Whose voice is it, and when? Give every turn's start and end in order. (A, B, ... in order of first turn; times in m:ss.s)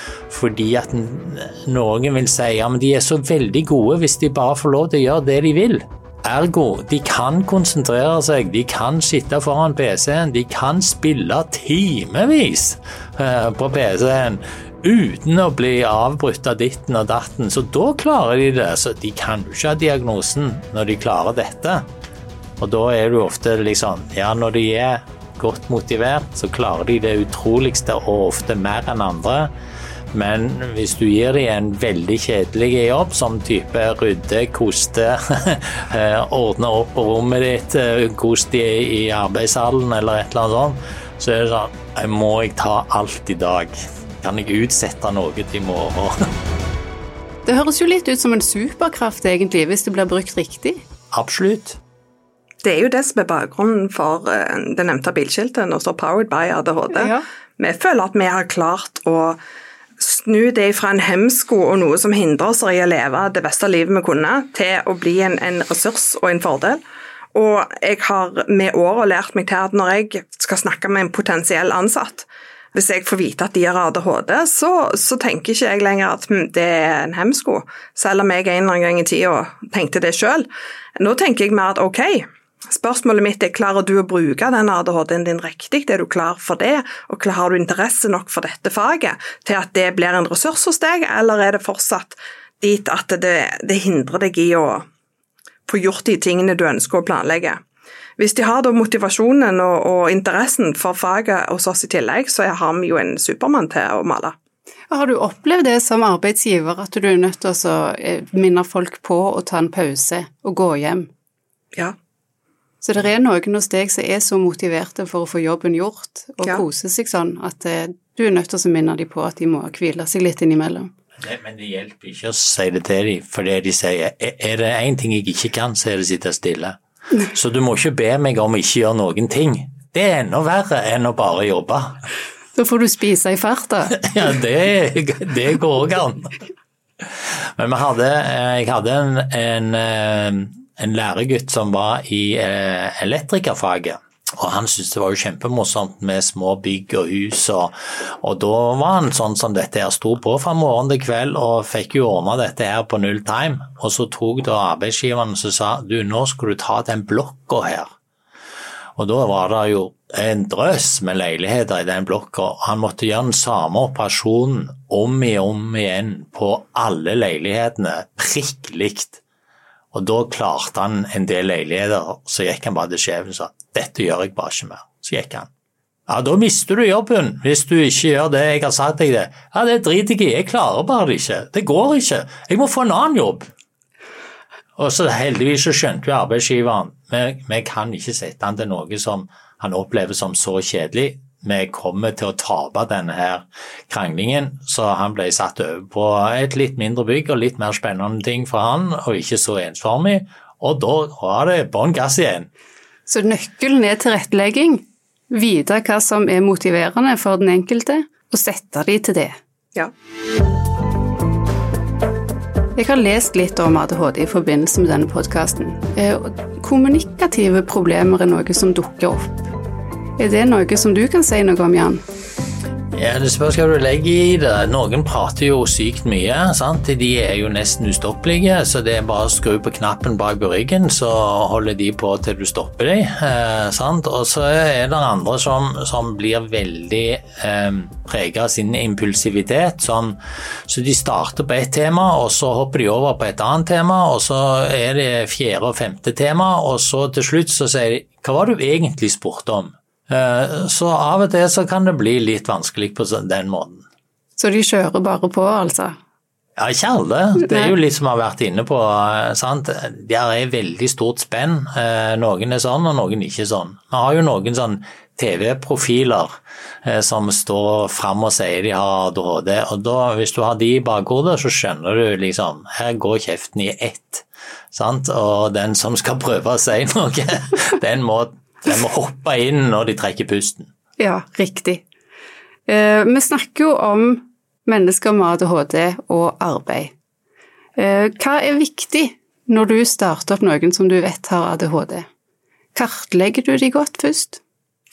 0:00.3-0:21.9 A
0:22.6-0:29.5 A
0:30.1-0:46.2 A
0:47.4-0:50.8 B
0:51.1-0:51.8 A
0:52.6-0:59.4 C
0:56.9-0:57.2 B
1:00.0-1:06.8 C
1:07.3-1:20.5 C
1:21.0-1:34.9 C
1:35.7-1:37.6 C
1:38.2-1:44.4 C
1:44.9-1:51.1 B
1:52.8-2:00.9 B
2:01.2-2:12.0 A
2:12.6-2:14.0 B
2:13.9-2:16.4 A
2:17.0-2:37.9 A
2:39.0-2:49.2 A
2:49.9-2:55.5 A
2:56.1-3:03.5 A
3:04.8-3:22.5 A
3:23.1-3:29.4 B
3:32.8-3:39.5 B
3:40.2-3:42.0 B
3:42.9-4:13.9 A
4:14.4-4:16.0 B
4:16.6-4:40.7 A
4:17.4-4:17.7 B
4:41.0-4:41.8 B
4:42.7-4:46.9 B
4:47.8-4:52.1 B
4:52.8-4:54.4 B